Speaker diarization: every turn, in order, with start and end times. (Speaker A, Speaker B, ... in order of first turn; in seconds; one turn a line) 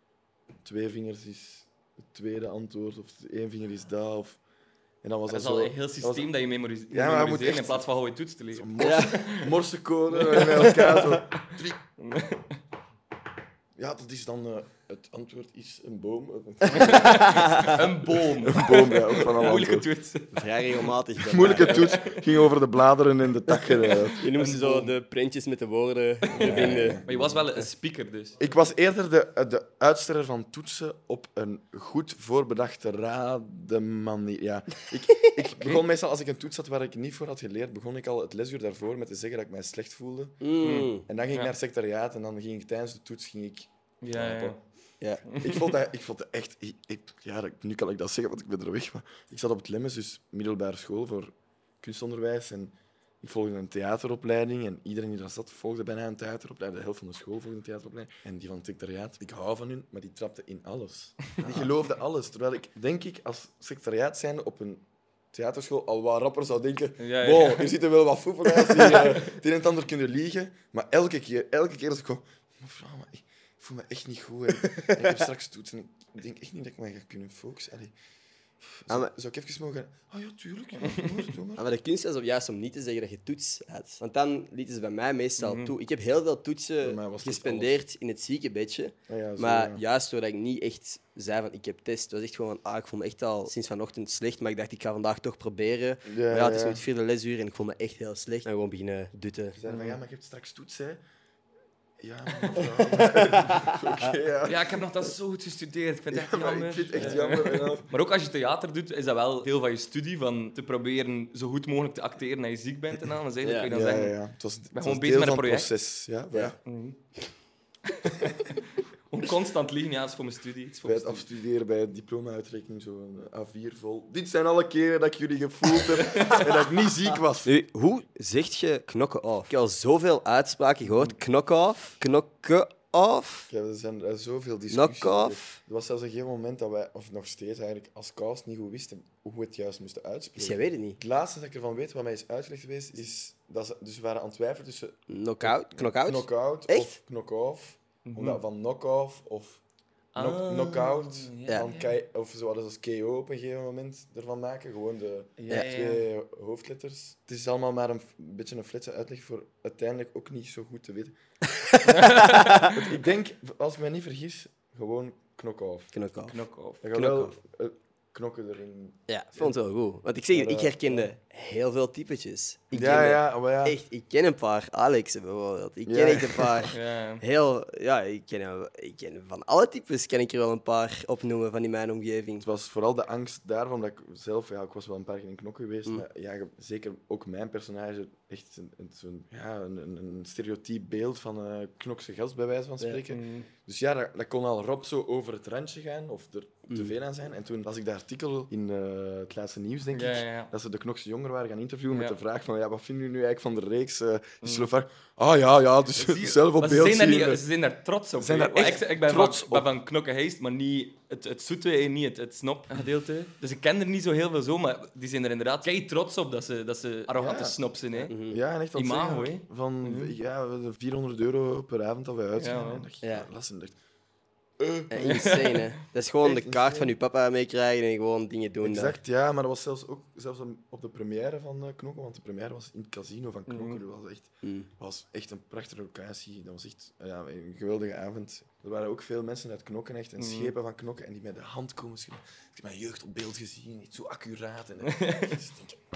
Speaker A: 0.6-4.4
Speaker A: 5.0-6.3
Speaker B: 5.3-9.5
Speaker A: 6.9-7.8
Speaker A: 8.5-11.8
Speaker C: 8.8-9.1
Speaker B: 10.1-12.5
Speaker A: 13.8-19.9
Speaker B: 16.7-20.9
Speaker C: 16.9-17.8
Speaker C: 20.3-21.9
Speaker A: 21.2-24.2
Speaker B: 21.6-22.2
Speaker B: 23.9-24.9
Speaker C: 24.2-27.0
Speaker B: 26.3-28.4
Speaker A: 26.3-27.4
Speaker A: 28.4-44.6
Speaker C: 40.4-41.0
Speaker B: 40.6-41.5
Speaker B: 44.0-44.6
Speaker B: 45.3-45.8
Speaker A: 45.4-77.9
Speaker C: 61.4-61.7
Speaker B: 67.0-67.7
Speaker C: 74.6-75.1
Speaker A: 78.6-81.7
Speaker C: 81.6-99.6
Speaker B: 85.4-85.7
Speaker A: 86.8-87.8
Speaker A: 89.1-89.8
Speaker A: 96.0-96.8
Speaker A: 99.5-101.0
Speaker B: 99.7-99.9
Speaker A: 102.0-104.8
Speaker C: 102.9-104.1
Speaker B: 104.4-114.2
Speaker A: 106.1-107.9
Speaker C: 113.4-113.7
Speaker A: 113.7-116.5
Speaker B: 114.7-115.7
Speaker B: 116.7-117.0
Speaker B: 119.1-121.2
Speaker A: 120.8-127.5
Speaker B: 126.0-126.4
Speaker C: 127.5-133.5
Speaker A: 133.5-149.6
Speaker C: 134.7-135.6
Speaker C: 140.4-141.0
Speaker C: 145.1-146.9
Speaker B: 148.1-148.4
Speaker B: 150.1-151.9
Speaker A: 150.2-161.1
Speaker B: 155.4-156.1
Speaker C: 161.6-162.7
Speaker B: 161.8-162.8
Speaker A: 162.7-165.9
Speaker C: 165.9-166.3
Speaker B: 166.3-166.8
Speaker A: 166.8-169.6
Speaker C: 166.9-167.3
Speaker C: 169.1-182.4
Speaker A: 170.3-171.1
Speaker A: 172.7-173.8
Speaker A: 175.8-176.7
Speaker B: 176.7-177.2
Speaker A: 182.4-207.4
Speaker B: 193.1-193.5
Speaker C: 196.7-196.9
Speaker B: 199.9-200.5
Speaker B: 201.9-202.2
Speaker B: 204.4-204.7
Speaker B: 205.9-218.1
Speaker A: 208.2-209.7
Speaker A: 217.1-217.6
Speaker C: 218.1-218.4
Speaker A: 218.3-223.8
Speaker B: 218.7-220.1
Speaker B: 222.4-222.8
Speaker C: 223.0-223.3
Speaker A: 224.6-225.2
Speaker C: 224.9-229.0
Speaker B: 225.0-225.6
Speaker A: 226.2-226.9
Speaker A: 228.6-245.8
Speaker B: 233.5-233.8
Speaker C: 234.4-234.7
Speaker B: 240.2-240.5
Speaker B: 244.9-245.3